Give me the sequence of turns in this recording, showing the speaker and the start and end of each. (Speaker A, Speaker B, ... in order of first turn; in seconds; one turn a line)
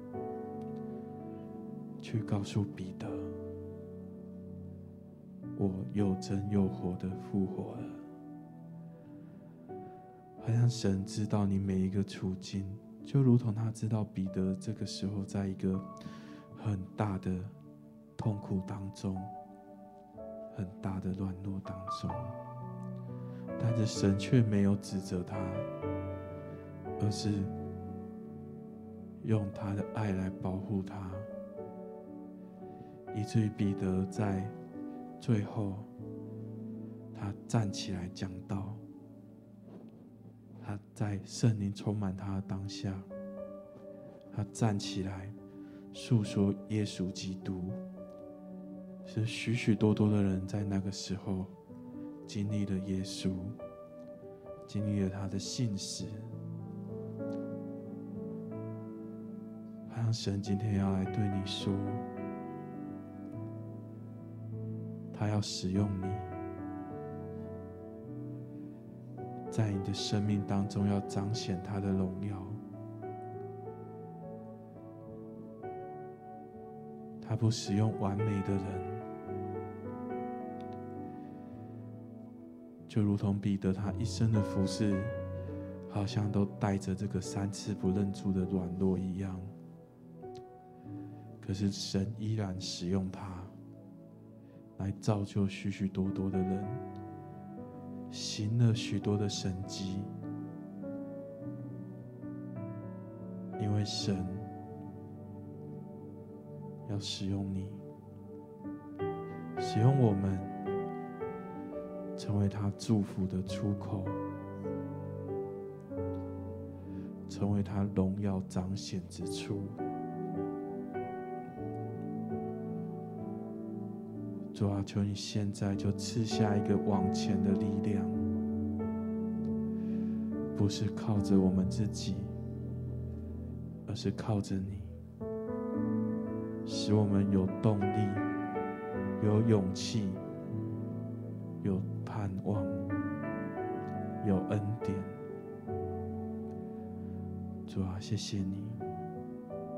Speaker A: 2.0-3.3
Speaker A: 5.5-8.0
Speaker A: 10.4-17.5
Speaker A: 18.1-19.3
Speaker A: 20.5-22.4
Speaker A: 23.6-25.7
Speaker A: 27.0-27.5
Speaker A: 29.2-31.3
Speaker A: 33.1-34.5
Speaker A: 35.2-35.9
Speaker A: 37.1-38.8
Speaker A: 40.6-43.1
Speaker A: 44.3-45.4
Speaker A: 45.9-47.8
Speaker A: 49.0-51.5
Speaker A: 52.2-53.6
Speaker A: 54.7-56.3
Speaker A: 59.9-62.0
Speaker A: 65.1-66.3
Speaker A: 69.5-72.6
Speaker A: 77.2-79.0
Speaker A: 82.9-85.2
Speaker A: 85.9-89.5
Speaker A: 91.4-93.5
Speaker A: 94.8-96.8
Speaker A: 98.1-100.1
Speaker A: 103.6-104.5
Speaker A: 106.8-107.8
Speaker A: 109.6-110.6
Speaker A: 112.2-114.2
Speaker A: 117.3-119.8
Speaker A: 124.5-128.3
Speaker A: 130.5-132.3
Speaker A: 133.8-134.9
Speaker A: 136.6-138.3
Speaker A: 139.2-140.2
Speaker A: 141.6-142.9
Speaker A: 144.2-145.2
Speaker A: 147.7-148.8